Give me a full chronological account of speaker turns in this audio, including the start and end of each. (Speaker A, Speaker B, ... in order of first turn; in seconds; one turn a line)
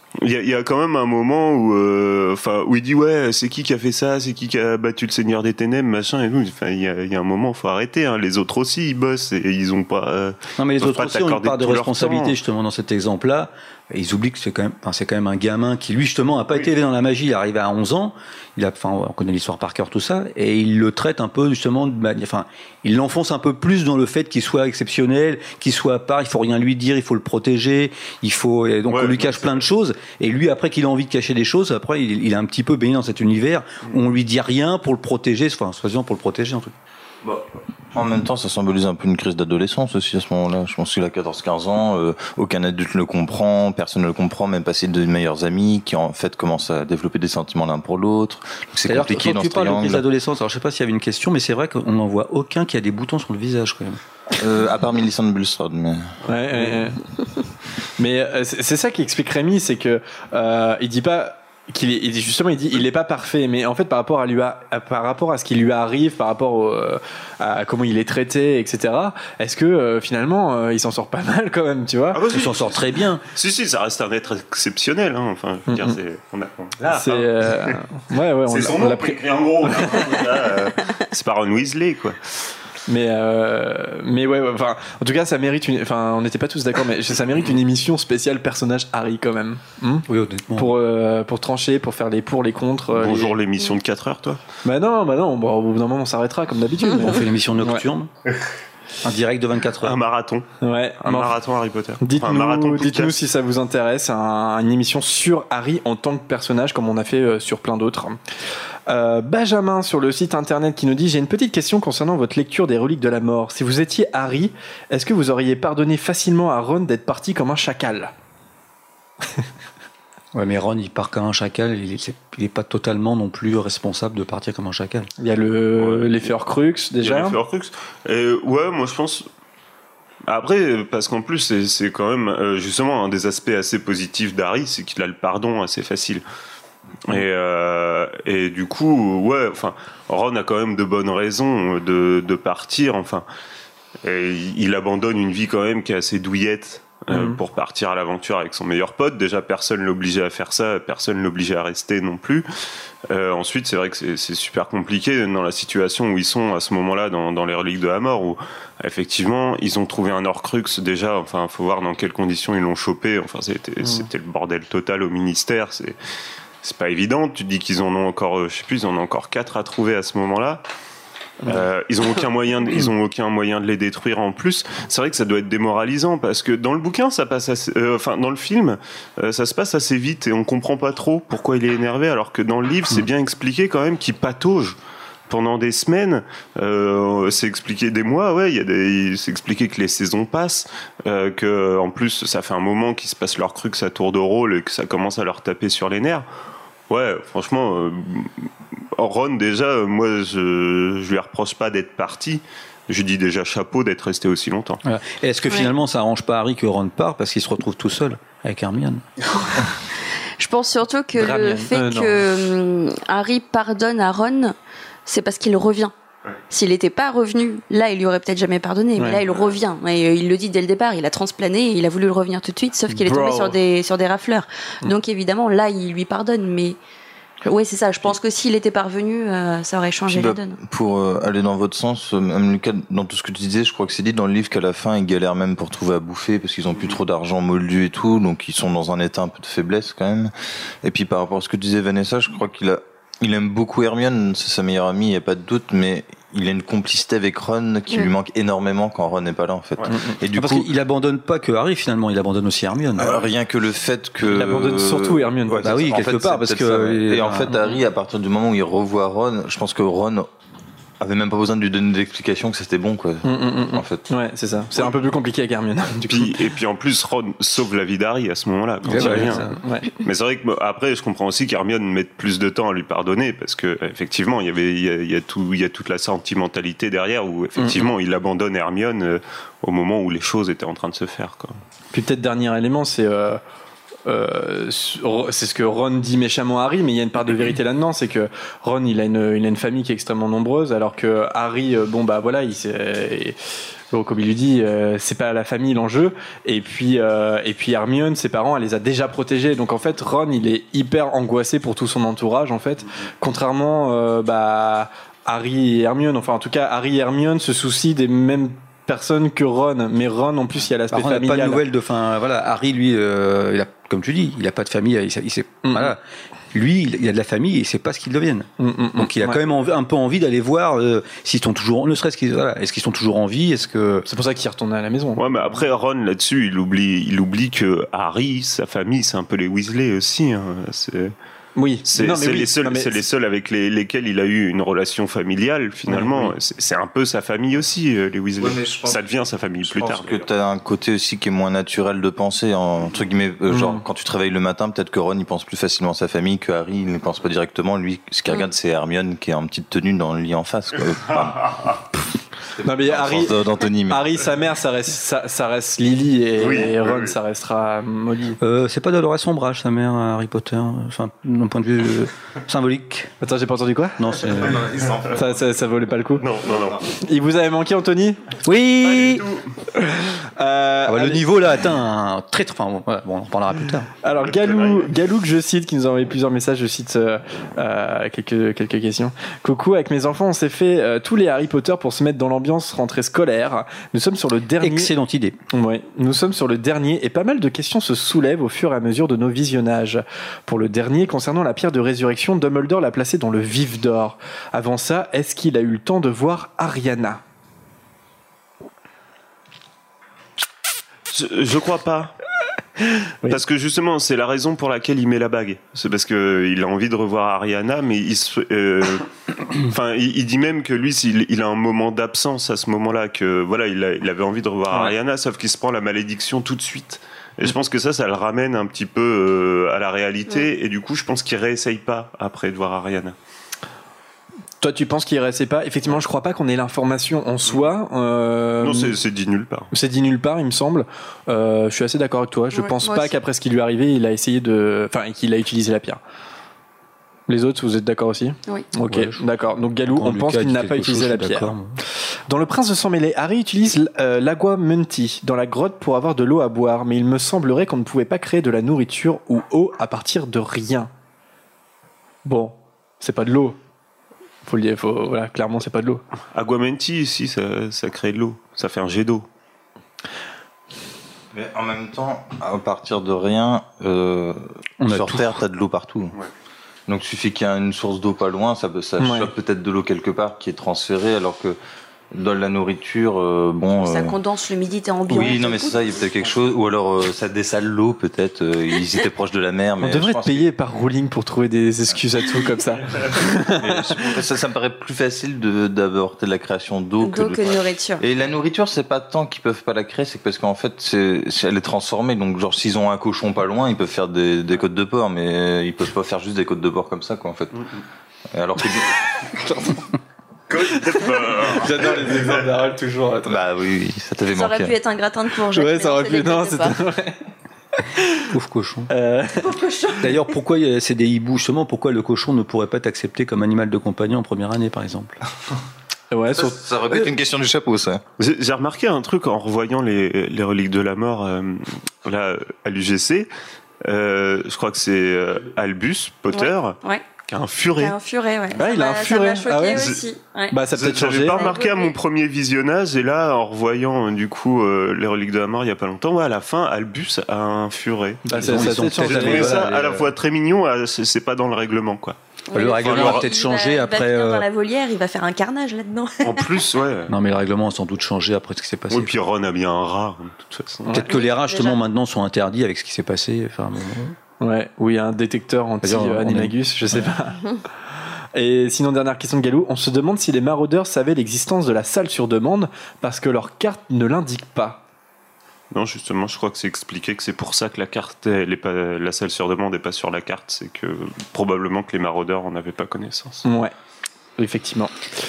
Speaker A: 0.2-12.3
Speaker B: 10.6-36.7
Speaker A: 28.9-29.6
Speaker C: 37.2-50.0
Speaker B: 48.9-54.0
Speaker C: 54.4-56.1
Speaker D: 56.2-57.0
Speaker D: 58.0-72.2
Speaker A: 72.1-77.8
Speaker B: 72.3-73.2
Speaker D: 75.7-76.0
Speaker D: 76.9-80.3
Speaker A: 78.5-82.2
Speaker D: 82.9-93.4
Speaker B: 90.1-90.7
Speaker A: 92.9-94.4
Speaker D: 94.6-97.8
Speaker B: 97.0-98.1
Speaker B: 99.0-100.0
Speaker A: 99.8-100.5
Speaker D: 100.6-101.3
Speaker A: 101.0-103.1
Speaker D: 102.0-108.2
Speaker D: 108.9-118.1
Speaker B: 120.3-125.1
Speaker D: 125.2-127.4
Speaker A: 125.8-126.3
Speaker A: 127.0-129.2
Speaker A: 130.3-136.2
Speaker A: 137.1-143.2
Speaker A: 144.0-152.4
Speaker D: 147.1-147.4
Speaker A: 153.1-165.9
Speaker D: 163.8-164.1
Speaker A: 166.6-170.6
Speaker A: 171.4-184.8
Speaker A: 185.3-196.2
Speaker A: 196.9-204.8
Speaker B: 204.8-209.0
Speaker E: 210.4-214.5
Speaker D: 211.1-212.2
Speaker E: 215.1-215.9
Speaker E: 216.5-226.8
Speaker D: 218.9-219.2
Speaker A: 219.3-219.6
Speaker D: 222.9-223.6
Speaker E: 227.4-230.6
Speaker C: 230.1-240.3
Speaker C: 240.8-250.7
Speaker B: 250.3-253.1
Speaker C: 252.9-260.3
Speaker D: 254.2-255.7
Speaker B: 255.6-257.6
Speaker C: 261.0-264.1
Speaker D: 263.2-266.4
Speaker A: 266.1-281.6
Speaker B: 268.8-269.6
Speaker D: 268.9-269.9
Speaker B: 277.6-277.9
Speaker D: 281.9-283.4
Speaker D: 284.1-293.4
Speaker D: 293.9-311.6
Speaker B: 310.9-316.0
Speaker D: 315.6-315.9
Speaker B: 316.5-324.0
Speaker D: 318.6-319.4
Speaker D: 324.1-325.6
Speaker A: 325.2-331.1
Speaker D: 331.6-333.0
Speaker A: 331.9-340.3
Speaker D: 335.9-336.3
Speaker C: 338.4-339.0
Speaker C: 339.6-351.8
Speaker D: 343.5-343.8
Speaker C: 352.4-354.2
Speaker D: 352.6-358.4
Speaker A: 356.4-357.1
Speaker B: 358.4-363.1
Speaker D: 363.2-364.5
Speaker B: 364.0-364.7
Speaker C: 364.4-365.4
Speaker D: 365.1-366.2
Speaker A: 366.2-366.9
Speaker D: 366.9-368.3
Speaker B: 368.4-369.2
Speaker A: 368.8-369.5
Speaker D: 369.7-371.3
Speaker B: 370.9-373.9
Speaker D: 374.0-384.9
Speaker A: 374.2-374.9
Speaker B: 384.6-385.4
Speaker D: 385.5-397.2
Speaker A: 401.1-402.1
Speaker A: 403.3-423.1
Speaker D: 424.6-428.9
Speaker A: 428.6-429.7
Speaker D: 429.7-436.0
Speaker E: 432.5-433.1
Speaker D: 437.3-441.5
Speaker B: 438.9-439.2
Speaker B: 439.9-441.8
Speaker D: 442.3-450.9
Speaker D: 452.2-453.6
Speaker D: 454.4-456.0
Speaker A: 456.3-459.2
Speaker C: 461.3-466.1
Speaker B: 464.8-465.3
Speaker C: 466.9-471.6
Speaker D: 469.0-469.3
Speaker C: 472.1-474.2
Speaker E: 473.8-475.8
Speaker C: 475.1-480.5
Speaker D: 479.8-483.9
Speaker C: 483.5-497.6
Speaker E: 487.0-488.0
Speaker C: 498.3-498.9
Speaker A: 500.5-501.7
Speaker D: 501.3-503.4
Speaker C: 503.2-504.8
Speaker E: 504.3-506.8
Speaker D: 505.5-507.3
Speaker D: 507.8-508.3
Speaker B: 508.3-508.9
Speaker D: 508.9-509.6
Speaker E: 509.4-510.3
Speaker B: 510.0-515.2
Speaker D: 516.1-516.7
Speaker C: 516.3-518.0
Speaker A: 518.2-523.3
Speaker A: 523.8-528.0
Speaker E: 526.3-527.0
Speaker E: 527.8-530.6
Speaker D: 528.6-529.9
Speaker A: 529.7-530.0
Speaker D: 530.5-531.5
Speaker A: 530.7-543.3
Speaker E: 531.3-532.0
Speaker D: 538.2-539.7
Speaker B: 538.3-540.1
Speaker E: 542.5-546.5
Speaker B: 542.5-544.5
Speaker A: 546.2-547.1
Speaker B: 547.1-549.1
Speaker A: 548.9-551.0
Speaker B: 550.9-554.1
Speaker E: 551.1-551.8
Speaker D: 554.4-557.4
Speaker B: 555.8-557.0
Speaker D: 558.3-564.8
Speaker A: 565.7-573.4
Speaker D: 573.4-573.7
Speaker D: 574.4-574.9